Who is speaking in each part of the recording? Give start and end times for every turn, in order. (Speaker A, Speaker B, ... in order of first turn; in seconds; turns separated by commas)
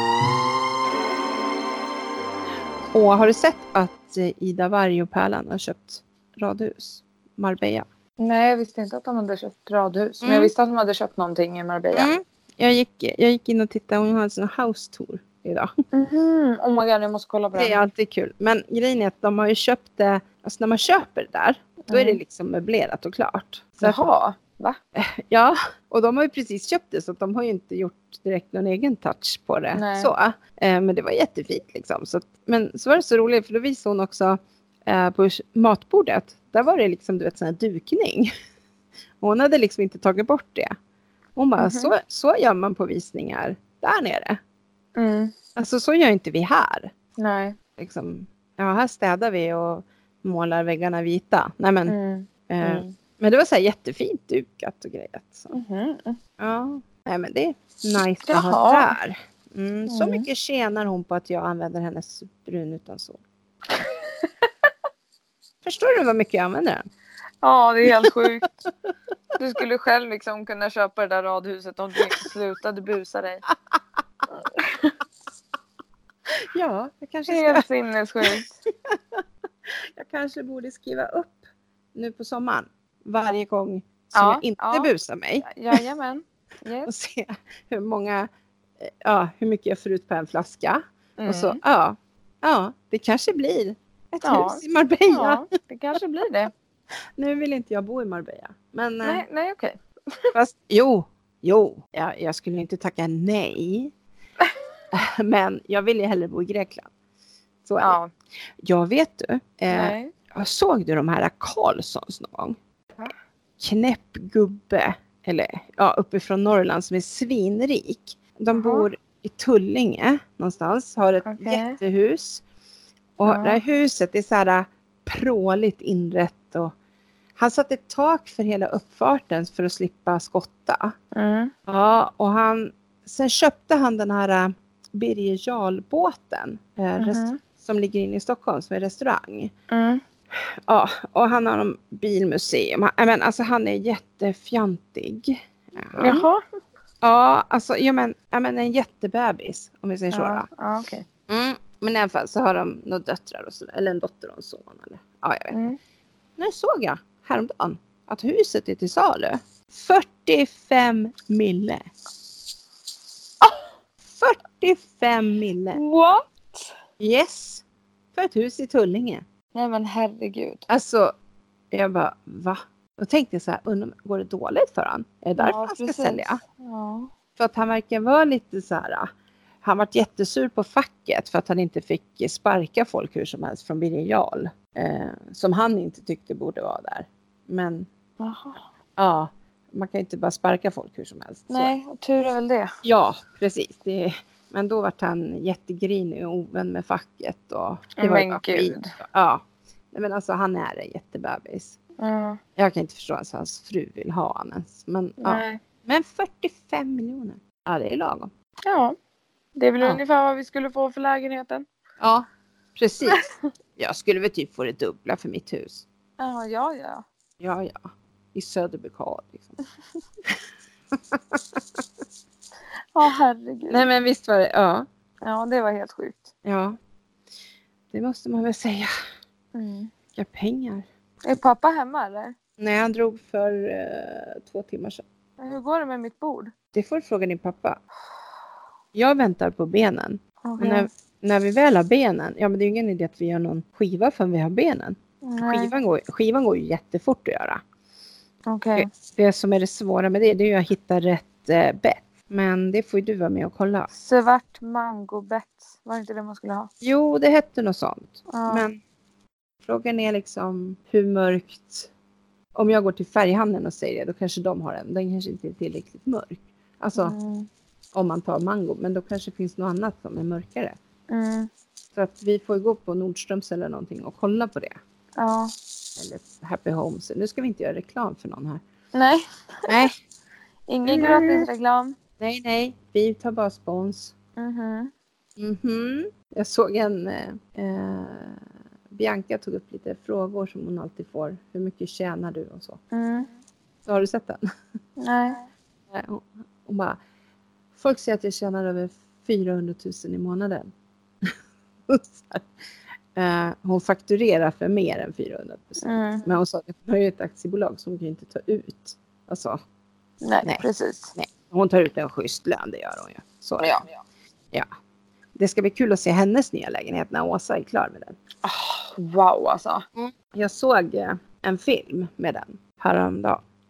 Speaker A: 2.9-7.8, Speaker B: 8.2-12.1, Speaker A: 10.2-10.5, Speaker A: 11.9-15.7, Speaker B: 15.9-17.8, Speaker A: 17.5-24.0, Speaker B: 21.9-22.2, Speaker B: 23.8-24.8, Speaker A: 24.9-38.3, Speaker B: 29.8-30.1, Speaker A: 39.2-40.7, Speaker A: 41.4-44.4, Speaker B: 41.6-41.9, Speaker B: 44.9-45.3, Speaker A: 45.5-46.9, Speaker B: 47.2-47.6, Speaker A: 47.8-52.0, Speaker B: 51.9-52.9, Speaker A: 52.5-55.5, Speaker B: 55.5-56.2, Speaker A: 56.4-63.2, Speaker B: 58.3-58.9, Speaker B: 59.9-60.3, Speaker B: 63.8-64.5, Speaker A: 65.6-66.9, Speaker B: 67.4-68.4, Speaker A: 67.9-68.3, Speaker B: 69.4-73.4, Speaker B: 74.3-74.9, Speaker A: 76.4-77.7, Speaker B: 77.3-78.5, Speaker A: 78.2-79.2, Speaker A: 80.0-81.4, Speaker A: 81.9-85.8, Speaker B: 84.1-84.9, Speaker B: 85.4-86.9, Speaker A: 86.8-88.3, Speaker A: 88.8-95.4, Speaker B: 91.2-91.6, Speaker B: 94.2-96.5, Speaker A: 97.2-99.2, Speaker B: 99.0-100.3, Speaker A: 100.3-103.9, Speaker A: 104.9-106.9, Speaker A: 107.6-108.0, Speaker B: 107.8-108.1, Speaker A: 108.6-112.6, Speaker B: 109.7-110.1, Speaker A: 113.6-122.4, Speaker B: 118.5-118.9, Speaker B: 121.2-121.8, Speaker A: 123.2-126.7, Speaker B: 123.2-123.6, Speaker A: 127.4-130.9, Speaker B: 131.1-131.5, Speaker A: 131.7-139.5, Speaker B: 137.0-137.4, Speaker B: 139.7-140.0, Speaker A: 140.7-146.2, Speaker B: 145.9-146.4, Speaker A: 147.0-150.5, Speaker B: 150.1-151.0, Speaker A: 151.3-155.6, Speaker B: 155.5-155.8, Speaker A: 156.4-161.9, Speaker A: 164.1-165.8, Speaker B: 165.7-166.7, Speaker A: 167.0-167.6, Speaker A: 168.1-169.2, Speaker B: 169.5-170.7, Speaker A: 170.7-171.1, Speaker A: 171.7-176.4, Speaker B: 175.4-177.1, Speaker A: 177.4-179.1, Speaker A: 179.6-187.9, Speaker B: 188.2-188.6, Speaker A: 189.0-191.7, Speaker B: 191.5-192.7, Speaker A: 192.8-201.8, Speaker B: 198.0-198.9, Speaker B: 202.0-202.4, Speaker A: 202.6-208.3, Speaker B: 205.2-205.6, Speaker B: 208.6-208.9, Speaker B: 209.6-211.7, Speaker A: 212.0-213.2, Speaker A: 213.8-215.8, Speaker B: 216.2-217.0, Speaker A: 217.4-219.6, Speaker A: 220.9-221.6, Speaker B: 222.9-223.9, Speaker A: 223.7-224.8, Speaker B: 225.2-226.3, Speaker A: 226.4-226.8, Speaker A: 227.9-228.9, Speaker B: 229.5-229.9, Speaker A: 230.1-230.8, Speaker B: 231.2-232.3, Speaker A: 232.6-235.0, Speaker B: 235.4-236.5, Speaker A: 236.7-237.8, Speaker A: 238.9-247.6, Speaker B: 240.4-240.9, Speaker B: 245.2-245.7, Speaker B: 248.4-248.9, Speaker A: 248.8-253.9, Speaker B: 253.9-256.7, Speaker A: 256.8-258.8, Speaker B: 258.3-258.6, Speaker A: 259.6-261.9, Speaker A: 262.6-267.1, Speaker B: 267.0-267.5, Speaker A: 267.9-270.8, Speaker B: 271.1-271.5, Speaker A: 271.9-274.7, Speaker B: 275.2-275.5, Speaker A: 276.0-278.6, Speaker B: 278.9-279.9, Speaker A: 279.7-279.9, Speaker B: 280.7-282.0, Speaker A: 280.8-281.5, Speaker A: 282.2-284.1, Speaker B: 284.4-284.9, Speaker A: 285.4-292.8, Speaker B: 292.9-293.3, Speaker A: 293.9-294.4, Speaker B: 295.0-295.4, Speaker A: 295.9-297.0, Speaker A: 297.7-300.7, Speaker A: 301.9-302.5, Speaker A: 303.1-309.6, Speaker B: 305.8-306.3, Speaker B: 310.2-311.1, Speaker A: 310.4-313.8, Speaker B: 313.6-313.9, Speaker A: 315.4-318.2, Speaker B: 318.4-319.8, Speaker A: 319.9-323.4